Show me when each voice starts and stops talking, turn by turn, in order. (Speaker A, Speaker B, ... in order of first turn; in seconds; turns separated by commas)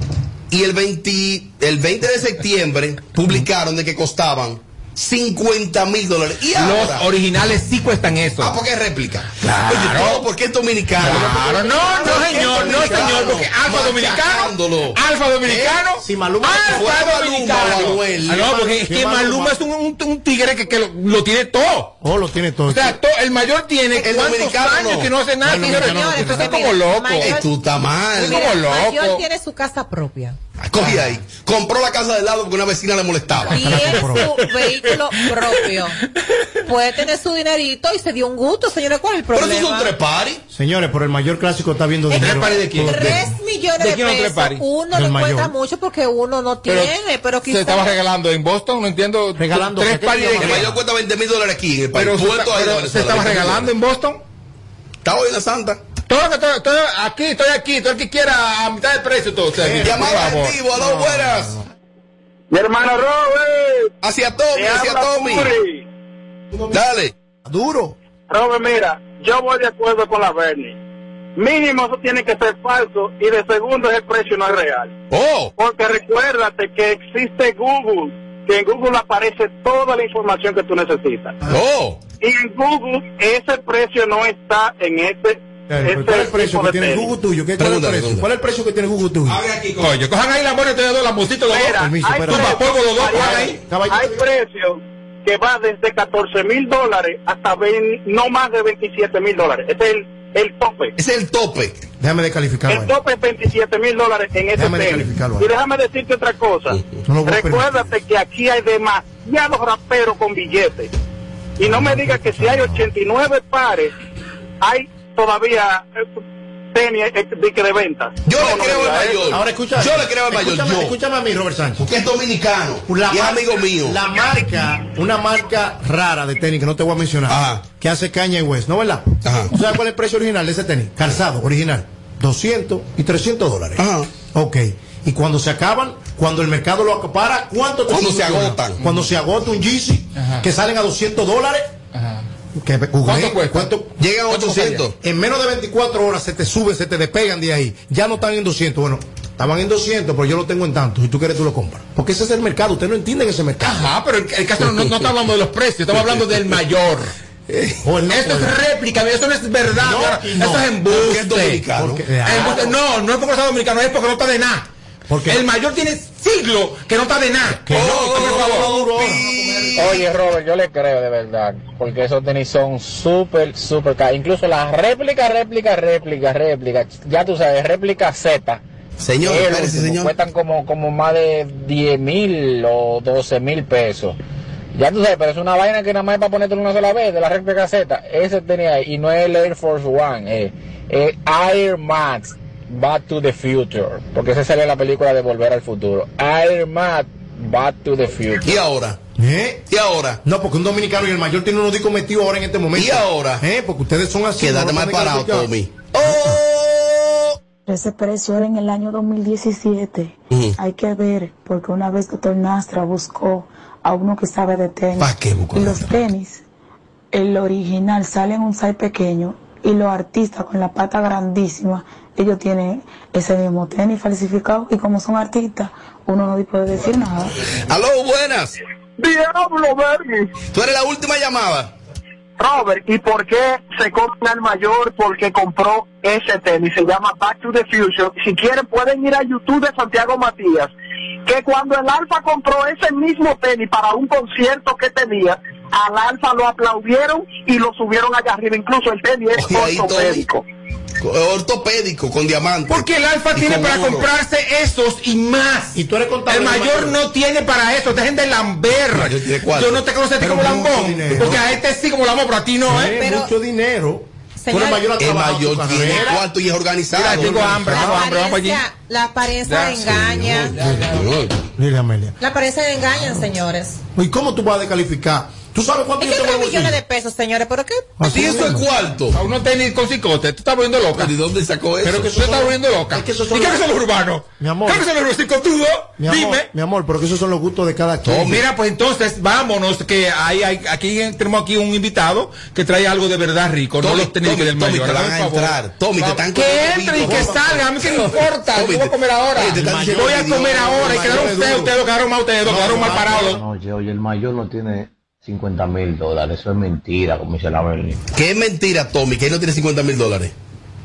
Speaker A: 0.5-7.1, Speaker B: 6.5-8.5, Speaker A: 8.4-15.8, Speaker B: 9.4-10.2, Speaker B: 11.0-21.9, Speaker C: 12.2-13.2, Speaker C: 16.0-16.9, Speaker A: 16.6-18.6, Speaker C: 18.5-19.6, Speaker C: 22.0-23.0, Speaker B: 22.7-27.4, Speaker A: 23.9-25.1, Speaker C: 25.4-26.7, Speaker D: 25.7-27.5, Speaker A: 27.2-28.6, Speaker B: 28.1-29.2, Speaker D: 28.2-30.4, Speaker A: 30.6-34.0, Speaker C: 33.5-34.3, Speaker D: 33.5-36.0, Speaker B: 34.6-35.0, Speaker D: 36.6-39.9, Speaker A: 39.3-40.4, Speaker C: 40.5-43.3, Speaker D: 42.1-47.9, Speaker B: 42.2-43.2, Speaker B: 43.8-44.6, Speaker C: 44.9-45.5, Speaker B: 46.6-50.7, Speaker C: 49.4-50.8, Speaker A: 50.3-53.7, Speaker B: 51.9-54.2, Speaker A: 55.0-55.8, Speaker B: 56.1-60.6, Speaker C: 59.6-61.6, Speaker A: 59.8-61.5, Speaker E: 62.5-63.9, Speaker A: 64.0-65.5, Speaker E: 64.5-65.8, Speaker C: 66.5-66.8, Speaker A: 66.7-67.1, Speaker C: 67.4-68.0, Speaker E: 68.3-70.7, Speaker E: 71.4-74.9, Speaker A: 75.1-75.5, Speaker E: 75.6-81.3, Speaker A: 81.5-82.0, Speaker E: 82.2-87.1, Speaker C: 85.7-89.4, Speaker A: 87.6-88.3, Speaker B: 89.3-93.6, Speaker E: 91.5-100.9, Speaker C: 91.7-94.2, Speaker A: 101.0-101.8, Speaker C: 102.0-103.0, Speaker E: 102.7-110.9, Speaker C: 104.5-105.5, Speaker C: 107.0-107.8, Speaker E: 111.6-113.9, Speaker C: 111.7-112.7, Speaker E: 114.6-115.8, Speaker E: 116.7-119.2, Speaker A: 118.2-121.0, Speaker C: 119.3-121.9, Speaker A: 121.8-124.0, Speaker C: 122.9-141.7, Speaker A: 127.3-127.6, Speaker A: 129.2-129.5, Speaker A: 133.8-134.1, Speaker A: 137.9-138.8, Speaker B: 140.2-140.4, Speaker B: 141.9-142.2, Speaker C: 142.5-143.9, Speaker B: 143.0-144.8, Speaker A: 144.0-144.9, Speaker C: 145.0-153.9, Speaker B: 153.6-157.1, Speaker A: 154.6-154.9, Speaker A: 155.9-156.2, Speaker A: 157.5-157.8, Speaker C: 157.8-158.6, Speaker B: 158.1-161.6, Speaker C: 159.8-160.7, Speaker A: 160.8-162.7, Speaker C: 161.7-162.8, Speaker B: 162.2-164.7, Speaker C: 165.1-165.4, Speaker B: 165.2-168.7, Speaker C: 167.6-169.9, Speaker A: 167.7-170.1, Speaker F: 169.8-178.6, Speaker A: 179.0-180.1, Speaker F: 179.2-184.2, Speaker F: 184.7-198.5, Speaker A: 198.4-199.0, Speaker C: 199.2-199.6, Speaker A: 199.7-200.2, Speaker C: 200.2-205.5, Speaker A: 202.8-203.4, Speaker A: 204.4-207.3, Speaker C: 206.0-206.4, Speaker G: 207.7-216.4, Speaker A: 215.0-216.0, Speaker G: 217.1-227.3, Speaker A: 227.5-228.6, Speaker E: 229.0-230.3, Speaker A: 230.5-231.7, Speaker E: 232.4-240.7, Speaker E: 241.2-250.4, Speaker A: 249.3-250.2, Speaker A: 251.0-254.1, Speaker B: 252.7-255.7, Speaker C: 255.7-257.0, Speaker B: 256.3-263.0, Speaker A: 258.9-259.9, Speaker C: 260.2-261.6, Speaker A: 261.1-261.4, Speaker C: 262.6-266.2, Speaker D: 262.8-263.3, Speaker D: 264.4-264.9, Speaker A: 264.5-268.0, Speaker B: 266.9-268.6, Speaker D: 267.7-270.6, Speaker B: 269.5-271.2, Speaker A: 270.1-271.3, Speaker C: 271.6-272.1, Speaker D: 272.2-273.8, Speaker C: 273.9-276.8, Speaker D: 276.0-277.9, Speaker C: 278.0-278.7, Speaker A: 278.1-279.2, Speaker B: 279.1-281.1, Speaker A: 280.9-282.3, Speaker B: 281.8-286.5, Speaker C: 282.0-283.8, Speaker C: 284.4-284.9, Speaker C: 286.0-288.4, Speaker A: 288.0-288.4, Speaker B: 288.2-303.4, Speaker A: 293.8-301.3, Speaker C: 297.0-297.9, Speaker C: 299.5-301.8, Speaker C: 302.4-303.4, Speaker H: 302.9-308.0, Speaker A: 308.1-310.3